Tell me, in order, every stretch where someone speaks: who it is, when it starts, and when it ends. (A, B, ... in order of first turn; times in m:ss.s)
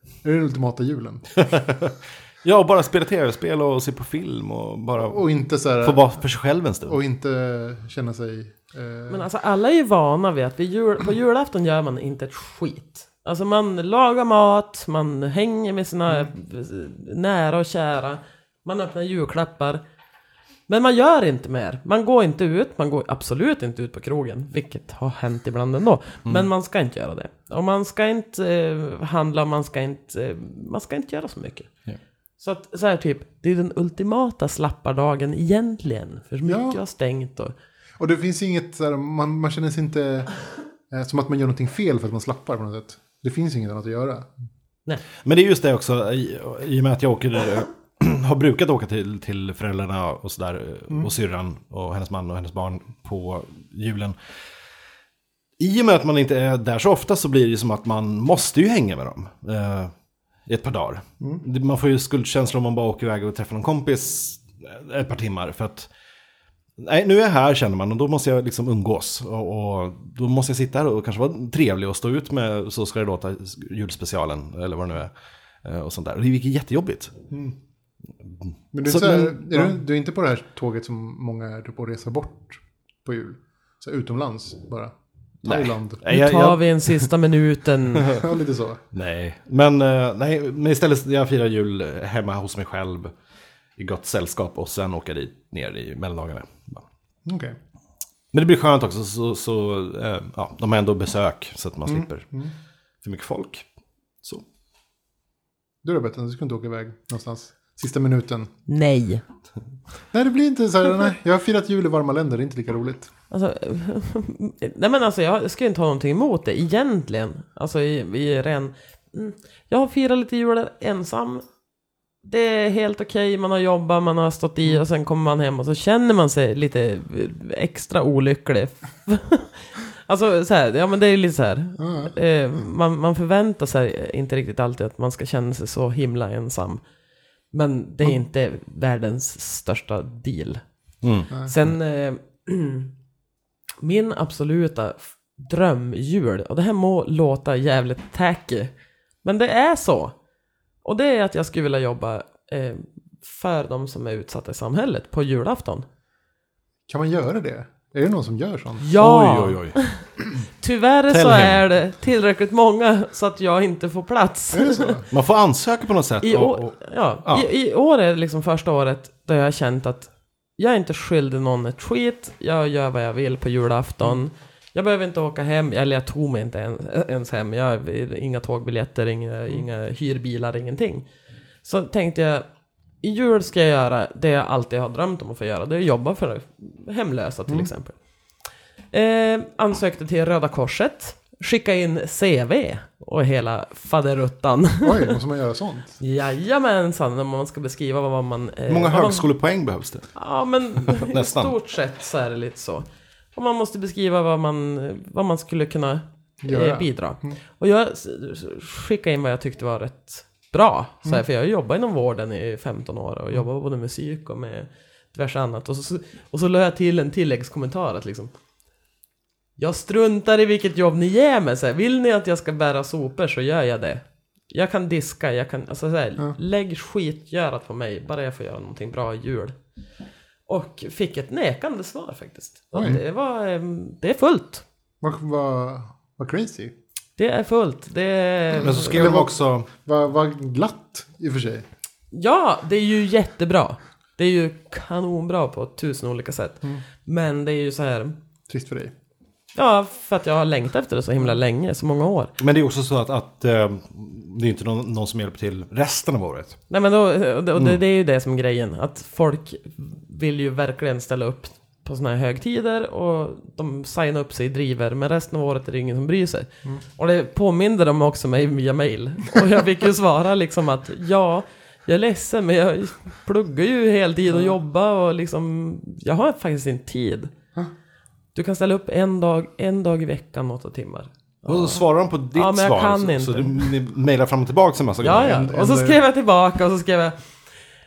0:00.2-0:01.4 A
0:01.4-0:05.2 B
0:05.0-0:06.2 A
0:05.8-0:07.0 B
0:06.9-0:09.3 A
0:09.1-0:19.8 C
0:20.7-0:31.7 C
0:32.4-0:37.5 C
0:36.4-0:36.8 A
0:38.0-0:40.3 A
0:40.9-0:44.3 A
0:45.2-0:54.2 B
0:55.6-0:59.9 B
1:00.5-1:05.9 B
1:06.8-1:17.2 B
1:17.3-1:17.6 A
1:18.7-1:26.0 A
1:18.8-1:19.7 B
1:25.4-1:27.1 B
1:26.1-1:28.2 C
1:28.1-1:28.8 A
1:28.9-1:33.1 B
1:33.8-1:36.8 B
1:37.3-1:37.6 A
1:38.3-1:42.3 B
1:41.9-1:42.5 A
1:43.0-1:43.7 B
1:45.8-1:48.5 A
1:48.7-1:49.2 C
1:50.1-1:53.1 A
1:53.3-2:01.4 C
2:02.2-2:16.8 C
2:11.8-2:12.1 A
2:17.5-2:20.6 C
2:21.0-2:21.3 B
2:21.4-2:22.9 C
2:23.8-2:28.7 C
2:29.2-2:30.1 C
2:30.8-2:35.8 C
2:36.9-2:38.9 A
2:38.8-2:40.0 C
2:39.0-2:39.8 B
2:40.6-2:45.0 C
2:41.1-2:41.6 B
2:44.5-2:45.1 A
2:45.1-2:47.5 B
2:46.2-3:01.1 C
3:01.6-3:02.4 C
3:03.0-3:07.9 C
3:08.9-3:15.2 C
3:14.8-3:16.0 A
3:16.0-3:19.3 C
3:18.7-3:20.1 B
3:20.2-3:38.3 C
3:20.9-3:21.6 B
3:26.4-3:27.4 A
3:39.6-3:49.6 C
3:50.5-3:54.6 C
3:52.7-3:53.0 A
3:55.0-3:56.7 A
3:57.2-3:59.2 C
3:58.6-3:59.7 B
3:58.6-4:01.7 A
4:02.1-4:08.2 C
4:08.5-4:08.9 A
4:09.6-4:12.3 C
4:12.4-4:16.6 B
4:16.7-4:37.3 C
4:38.4-4:43.8 C
4:41.5-4:45.4 B
4:45.0-4:47.2 C
4:45.2-4:46.0 A